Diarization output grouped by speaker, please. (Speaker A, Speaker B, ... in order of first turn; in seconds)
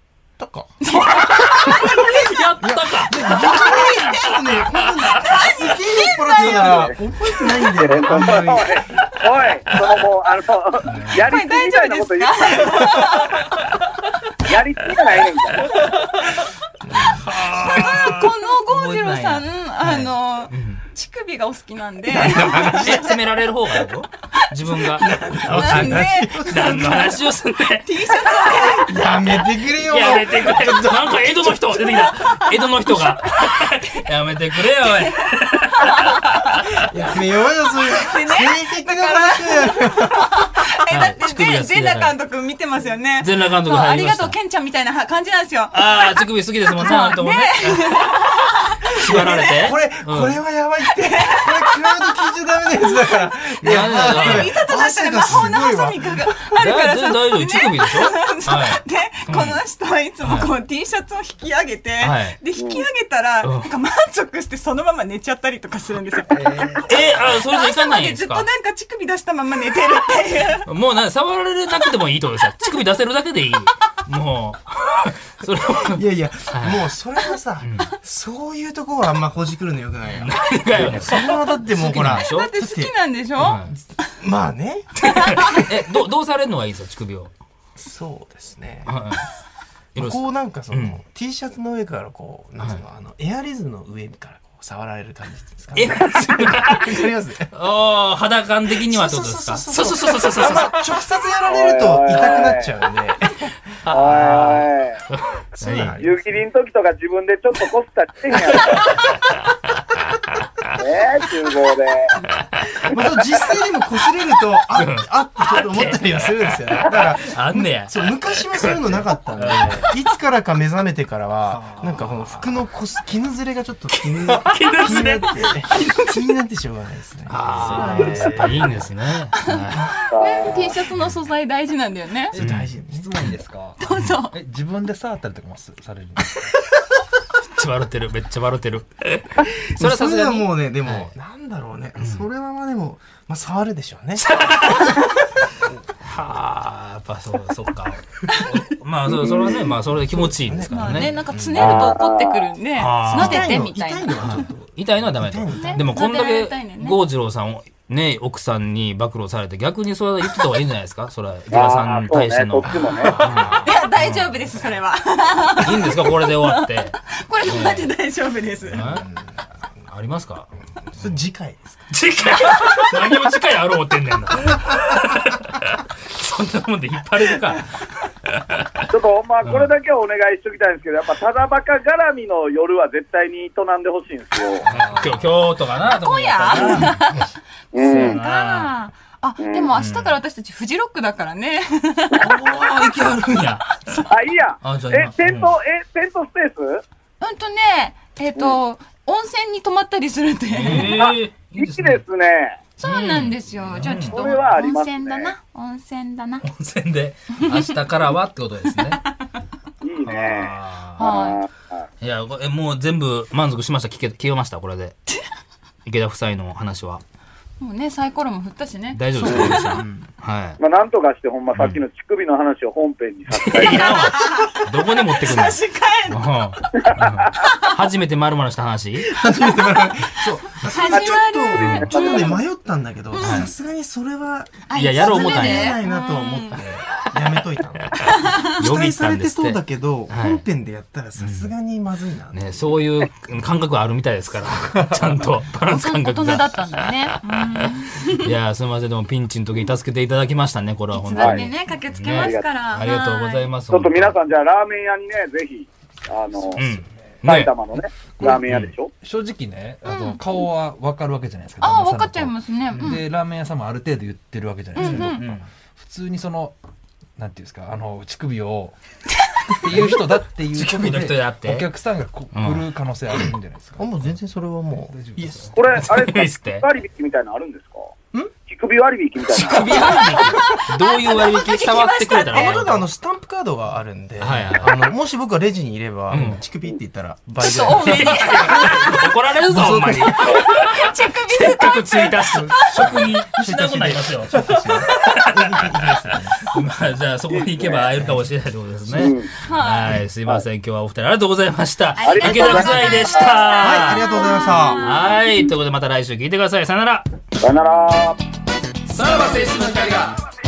Speaker A: 0.4-0.7, 2.6-8.8, 16.8-17.3, 22.1-23.2, 25.0-27.1, 28.6-31.8, 36.8-40.6, 49.0-56.5, 75.8-83.0, 83.5-85.0, 87.8-88.9, 90.0-97.5, 98.8-103.5, 105.6-106.3, 112.9-128.9, 132.3-133.1, 139.8-145.1, 149.4-151.9, 153.1-156.0, 162.7-163.7, 168.7-169.4, 170.9-171.8, 219.8-220.0, 229.1-242.6, 273.8-275.6, 282.2-288.9, 289.5-290.3, 292.3-296.5, 298.0-298.3, 298.8-299.1, 303.6-304.9
Speaker B: 0.8-2.4, 3.3-4.4, 5.1-7.5, 11.0-13.4, 17.7-23.1, 25.5-27.2, 27.8-28.9, 31.9-33.6, 35.8-36.5, 37.9-45.9, 46.8-49.5, 51.0-52.0, 53.3-70.7, 81.8-84.1, 85.1-85.7, 124.9-125.1, 129.5-132.4, 133.8-134.4, 150.7-154.2, 155.6-157.0, 163.6-168.8, 185.9-192.7, 197.2-200.9, 202.8-206.4, 207.4-207.8, 211.0-211.4, 217.6-219.8, 223.7-226.2, 227.3-227.7, 230.2-232.4, 233.1-233.5, 234.7-236.6, 245.7-248.3, 250.9-253.5, 259.9-260.2, 261.6-263.0, 264.8-265.3, 279.7-282.6, 287.4-289.1, 290.0-292.9, 299.4-300.0, 302.0-305.5
Speaker C: 1.3-4.3, 10.8-11.3, 17.1-20.8, 22.8-28.1, 29.6-36.2, 40.9-42.1, 43.2-44.4, 45.7-48.1, 48.9-50.4, 53.6-54.5, 55.3-55.6, 56.5-59.6, 60.2-60.5, 62.0-62.4, 63.4-63.7, 66.9-68.5, 70.6-76.9, 77.6-77.9, 80.1-82.5, 83.4-83.8, 85.0-87.3, 88.9-89.2, 90.0-91.0, 95.7-100.9, 103.8-106.0, 108.5-109.5, 114.8-118.0, 118.6-120.0, 121.5-122.6, 124.0-125.5, 127.3-129.9, 130.9-131.2, 132.4-132.7, 137.6-141.1, 142.0-142.3, 144.3-145.1, 146.0-151.2, 152.8-153.5, 154.2-164.6, 165.6-167.9, 168.7-169.1, 169.9-170.5, 171.9-178.6, 179.4-179.7, 184.6-187.1, 187.8-188.7, 189.7-190.2, 192.2-194.0, 194.6-195.6, 200.5-202.0, 202.8-204.4, 206.4-209.1, 210.1-211.1, 212.0-215.0, 215.8-217.0, 218.9-220.6, 221.6-221.8, 223.3-229.1, 231.6-232.0, 233.2-233.5, 234.8-235.8, 238.4-240.4, 241.2-241.5, 242.3-247.0, 248.2-254.2, 256.6-257.5, 258.3-258.8, 264.9-265.4, 269.7-270.0, 270.5-271.7, 272.3-273.2, 275.7-276.7, 279.3-282.9, 284.2-284.8, 286.1-286.4, 287.7-304.1, 304.8-307.1, 309.0-309.8
Speaker D: 6.4-7.0, 7.8-13.1, 14.4-15.8, 62.6-62.9, 101.5-102.8, 103.9-105.0, 106.0-109.2, 110.8-112.2, 130.1-130.7, 151.6-152.5, 161.5-163.2, 178.9-184.7, 186.5-186.8, 187.7-188.2, 189.4-189.7, 194.1-196.8, 200.7-202.6, 204.0-205.3, 209.8-211.8, 219.2-219.7, 220.6-224.2, 231.7-232.3, 251.2-251.4, 252.1-252.5, 253.7-256.6, 257.2-258.9, 275.5-277.9, 278.5-280.0, 297.3-297.9, 298.9-299.3, 302.0-303.5, 307.4-308.2
Speaker E: 127.6-128.5, 132.3-136.5, 184.6-185.4, 259.0-266.6, 267.2-268.8, 269.6-274.2, 274.8-275.8, 309.3-310.1